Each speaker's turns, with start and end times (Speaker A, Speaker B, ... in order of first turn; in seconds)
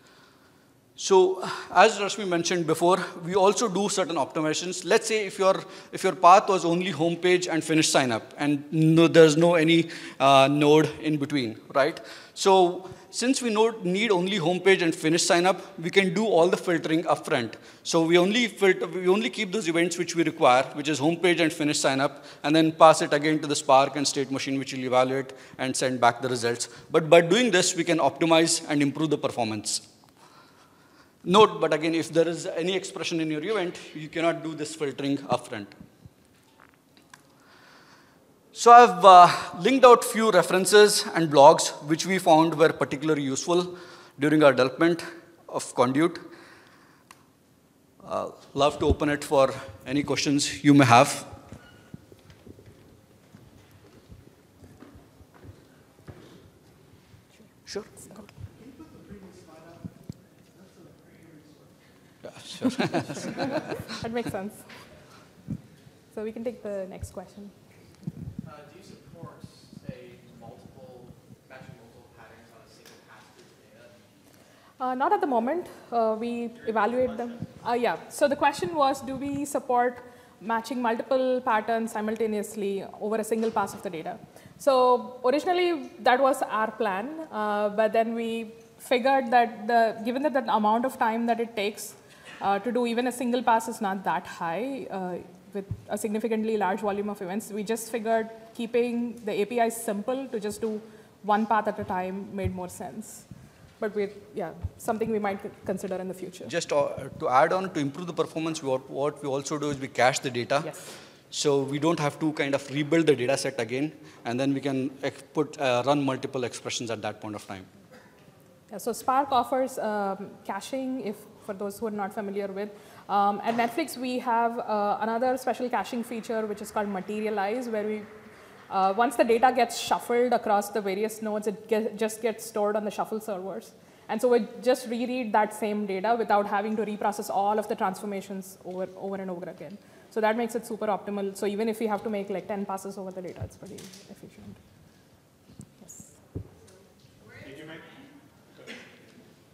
Speaker A: 1.0-29.8, 31.2-35.7, 38.5-46.2, 48.0-51.3, 62.4-63.1, 106.5-110.7, 111.3-117.7
Speaker B: 58.6-61.8, 63.1-63.5, 68.4-74.1, 76.6-77.5
Speaker C: 63.5-64.7, 66.1-67.5, 74.8-103.2, 103.8-106.5, 110.6-110.9, 118.7-128.1, 128.7-144.6, 145.8-146.1